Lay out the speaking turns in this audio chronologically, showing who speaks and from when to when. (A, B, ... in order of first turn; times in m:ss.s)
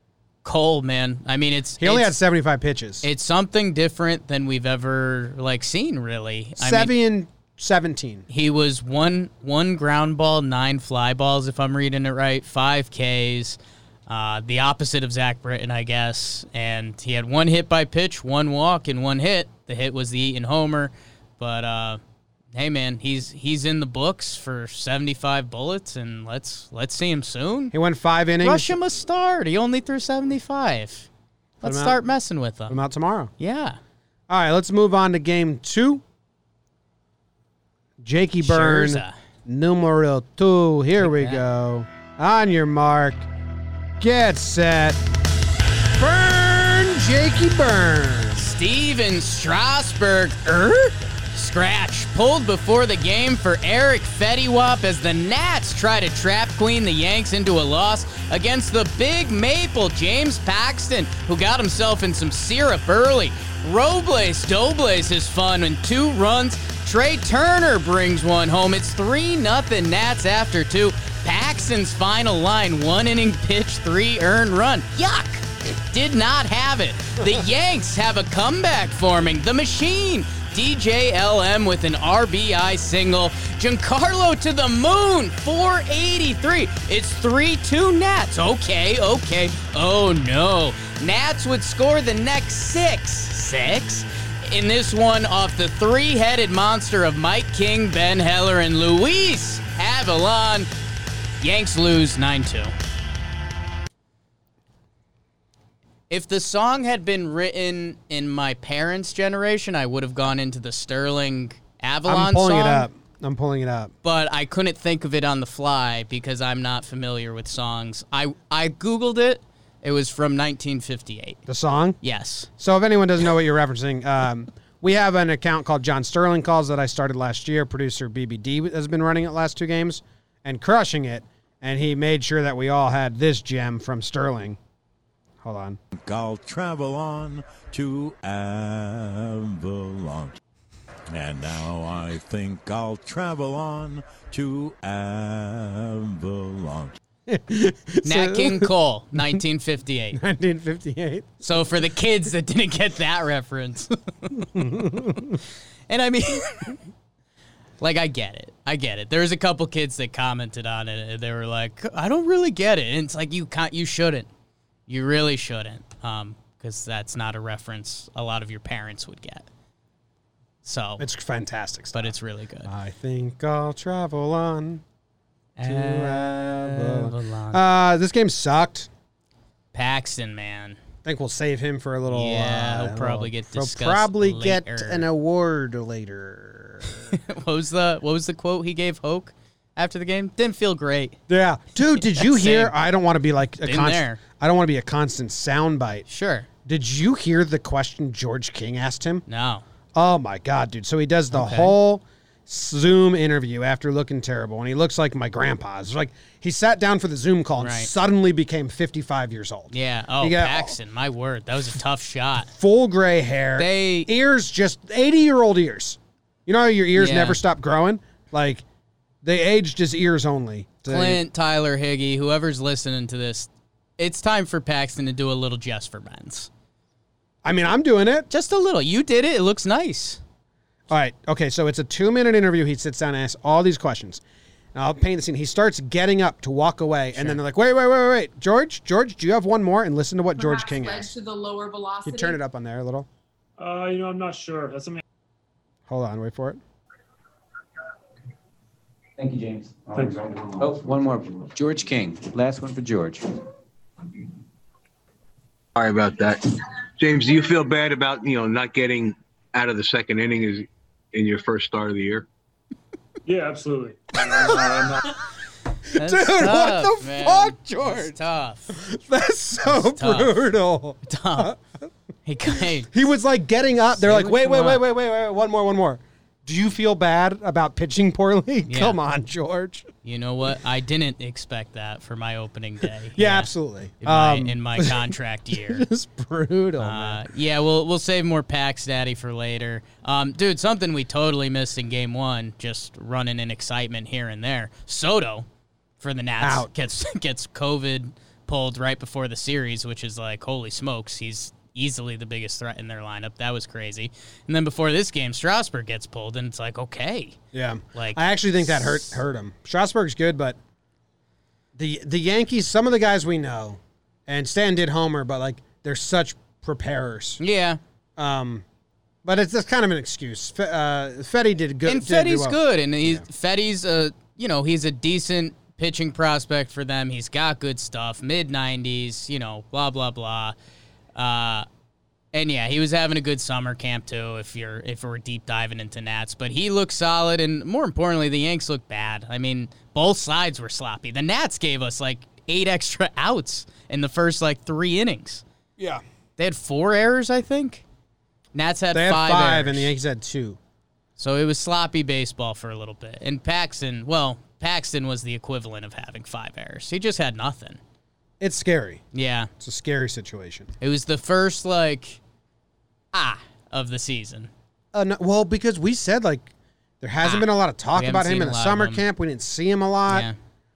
0:00.4-0:02.1 A
0:01.8-0:03.0 B
0:03.0-0:06.9 A
0:06.6-0:08.2 B
0:08.3-0:22.0 A
0:22.5-0:27.7 A
0:27.7-0:28.8 B
0:28.4-0:31.1 A
0:31.6-0:32.0 B
0:31.6-0:32.8 A
0:32.7-0:33.3 B
0:33.4-0:33.8 A
0:34.3-0:36.0 B
0:38.0-0:43.3 B
0:38.4-0:39.1 A
0:41.0-0:41.4 A
0:44.0-0:45.0 B
0:45.9-0:48.5 B
0:48.4-1:40.7 A
1:41.4-1:42.7 A
1:46.1-1:52.9 A
1:52.0-1:53.9 B
1:54.0-2:01.4 A
2:01.5-2:02.0 B
2:02.0-2:02.5 A
2:02.6-2:14.6 B
2:15.4-2:15.8 B
2:16.0-2:20.4 C
2:21.1-2:27.0 C
2:27.3-2:29.4 B
2:28.0-2:30.2 A
2:30.1-2:31.6 B
2:31.4-2:35.2 A
2:34.3-2:35.4 B
2:35.9-2:36.8 A
2:37.8-2:44.3 A
2:44.9-2:49.5 A
2:50.6-2:51.0 A
2:51.0-2:52.1 B
2:51.9-2:52.7 A
2:52.6-2:54.8 B
2:55.6-2:57.6 A
2:55.6-2:58.9 B
2:59.7-3:00.8 A
3:01.0-3:07.2 B
3:02.1-3:05.0 A
3:07.1-3:11.2 A
3:11.3-3:16.0 B
3:12.0-3:12.7 A
3:13.6-3:14.2 A
3:16.1-3:16.5 A
3:16.6-3:19.2 B
3:19.3-3:19.6 A
3:19.9-3:30.8 B
3:21.3-3:21.8 A
3:27.6-3:27.9 A
3:29.7-3:32.5 A
3:32.5-3:38.6 B
3:33.6-3:34.1 A
3:36.9-3:37.4 A
3:39.2-3:41.2 B
3:40.8-3:46.5 A
3:47.4-3:48.3 B
3:48.3-3:50.2 A
3:50.9-3:54.2 B
3:54.7-4:01.1 B
4:00.4-4:02.4 D
4:02.0-4:03.1 B
4:03.6-4:05.0 E
4:05.9-4:06.6 B
4:09.2-4:13.2 F
4:15.7-4:16.4 G
4:17.0-4:22.2 G
4:23.2-4:25.1 E
4:25.9-4:28.2 B
4:26.0-4:28.8 A
4:28.7-4:31.6 B
4:29.6-4:30.5 A
4:31.0-4:31.5 A
4:32.2-4:32.9 A
4:32.9-4:39.9 B
4:34.0-4:34.8 A
4:38.7-4:39.0 A
4:40.0-4:43.5 A
4:43.1-4:47.3 B
4:44.0-4:45.8 A
4:46.8-4:55.5 A
4:56.0-5:07.4 A
4:56.4-4:56.7 B
5:07.5-5:10.6 B
5:07.9-5:09.0 A
5:11.8-5:17.4 B
5:17.4-5:17.8 A
5:18.2-5:18.6 B
5:19.2-5:23.2 B
5:21.8-5:30.5 A
5:31.1-5:31.6 A
5:32.3-5:45.4 A
5:45.8-5:46.0 B
5:46.4-5:47.8 A
5:48.5-5:49.9 A
5:48.9-5:50.6 B
5:51.2-5:57.8 A
5:58.4-5:59.0 B
5:59.1-5:59.5 A
5:59.6-6:00.7 B
6:00.8-6:02.2 A
6:03.1-6:04.5 A
6:04.9-6:10.3 B
6:07.2-6:09.0 A
6:10.1-6:10.4 A